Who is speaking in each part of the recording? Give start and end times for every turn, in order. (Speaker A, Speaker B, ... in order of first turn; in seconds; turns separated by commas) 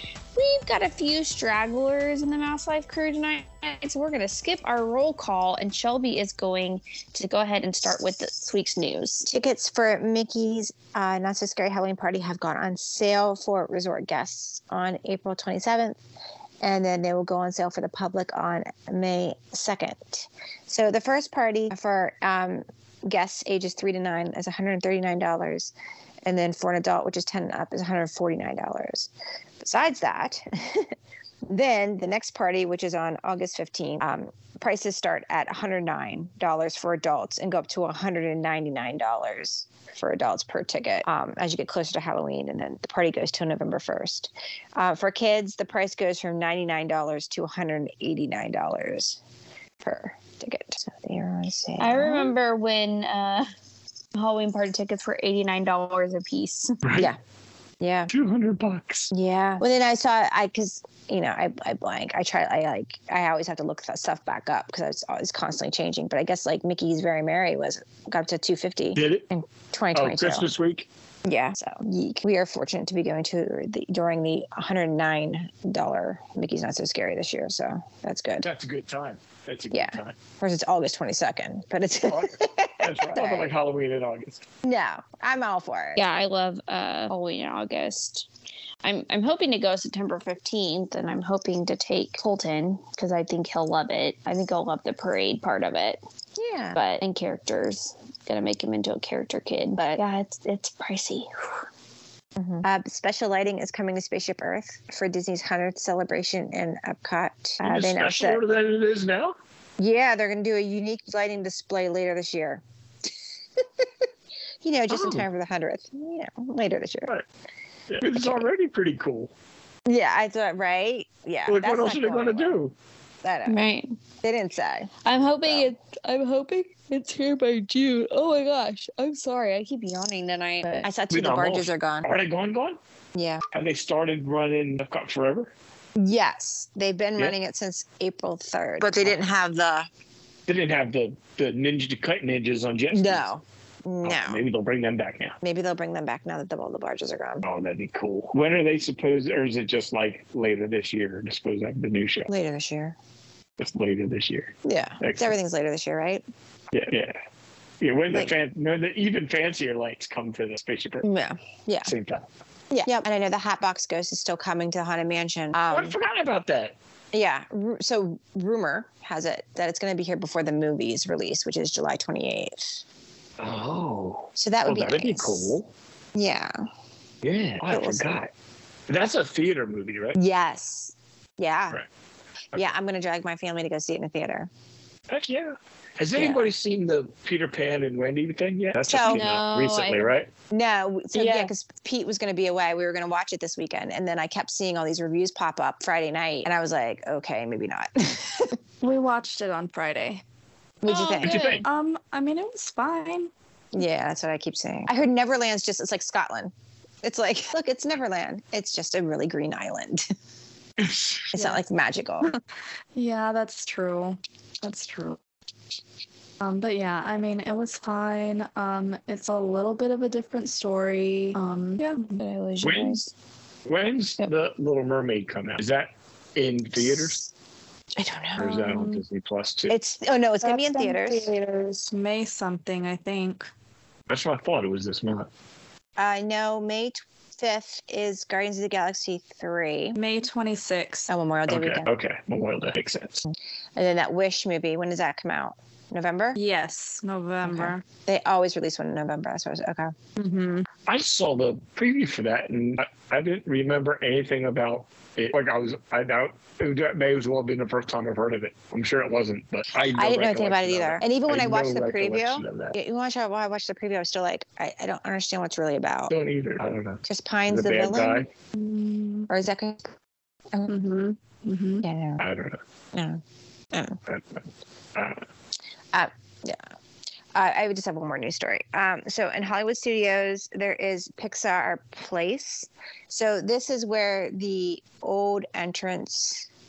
Speaker A: 0.3-9.3, Speaker B: 9.3-16.0, Speaker B: 16.6-30.9, Speaker B: 31.5-49.2, Speaker B: 49.8-52.3, Speaker A: 51.8-53.5, Speaker A: 54.1-56.8, Speaker C: 56.8-57.1, Speaker B: 57.8-58.1, Speaker C: 58.1-59.1, Speaker B: 59.1-70.5, Speaker C: 69.0-69.3, Speaker C: 69.9-70.9, Speaker B: 71.2-78.5, Speaker C: 78.4-80.2, Speaker B: 79.7-83.5, Speaker C: 82.0-84.4, Speaker B: 84.6-86.0, Speaker A: 86.0-88.3, Speaker A: 88.8-96.0, Speaker B: 96.4-96.8, Speaker A: 96.8-101.6, Speaker B: 99.8-100.0, Speaker B: 102.4-108.4, Speaker C: 107.6-109.3, Speaker B: 109.8-113.9, Speaker B: 114.6-117.1, Speaker C: 114.9-115.3, Speaker C: 117.9-119.3, Speaker B: 118.0-118.5, Speaker B: 119.9-122.6, Speaker C: 121.5-122.7, Speaker B: 123.2-123.6, Speaker A: 123.5-124.0, Speaker B: 124.2-124.9, Speaker A: 125.0-130.9, Speaker B: 125.4-125.7, Speaker B: 130.8-132.1, Speaker C: 131.1-132.8, Speaker B: 133.2-133.4, Speaker C: 133.5-135.5, Speaker B: 136.0-139.9, Speaker C: 140.5-143.3, Speaker B: 142.9-144.4, Speaker C: 144.0-145.4, Speaker B: 145.4-147.4, Speaker C: 147.4-152.3, Speaker B: 152.3-153.0, Speaker C: 153.6-155.4, Speaker B: 154.7-156.2, Speaker C: 156.7-157.2, Speaker C: 157.8-161.1, Speaker B: 161.0-161.9, Speaker C: 161.8-162.2, Speaker B: 162.7-166.0, Speaker C: 165.7-166.7, Speaker B: 167.1-172.8, Speaker C: 173.4-175.7, Speaker B: 174.4-175.6, Speaker B: 176.2-176.6, Speaker C: 177.2-178.3, Speaker B: 177.6-178.2, Speaker C: 178.9-180.2, Speaker B: 180.2-181.8, Speaker B: 182.5-184.5, Speaker C: 185.1-190.3, Speaker B: 186.2-186.5, Speaker B: 188.8-189.2, Speaker A: 189.1-190.1, Speaker B: 190.5-198.6, Speaker D: 191.1-191.5, Speaker D: 198.8-200.2, Speaker B: 200.8-201.4, Speaker A: 200.9-201.6, Speaker C: 201.2-201.7, Speaker D: 201.3-203.3, Speaker B: 203.7-210.1, Speaker C: 210.8-211.2, Speaker B: 211.3-212.3, Speaker D: 211.4-211.6, Speaker D: 212.9-215.2, Speaker D: 216.4-222.2, Speaker A: 222.2-223.1, Speaker C: 222.6-223.0, Speaker C: 223.7-227.2, Speaker B: 226.8-227.1, Speaker B: 228.0-228.5, Speaker D: 228.4-229.0, Speaker C: 228.4-229.8, Speaker B: 229.7-231.3, Speaker D: 230.4-233.5, Speaker C: 234.1-235.3, Speaker B: 236.0-240.0, Speaker D: 240.0-241.1, Speaker B: 241.1-241.9, Speaker C: 241.5-243.2, Speaker B: 243.8-246.4, Speaker D: 246.4-247.8, Speaker B: 247.4-249.9, Speaker D: 250.2-250.7, Speaker C: 250.9-262.8, Speaker B: 259.9-266.1, Speaker C: 266.1-268.3, Speaker B: 267.0-268.3, Speaker D: 268.6-269.3, Speaker B: 269.3-269.9, Speaker D: 270.7-271.9, Speaker B: 271.8-272.2, Speaker C: 272.2-272.6, Speaker B: 272.9-274.0, Speaker C: 274.1-275.2, Speaker B: 275.9-276.6, Speaker B: 277.3-286.5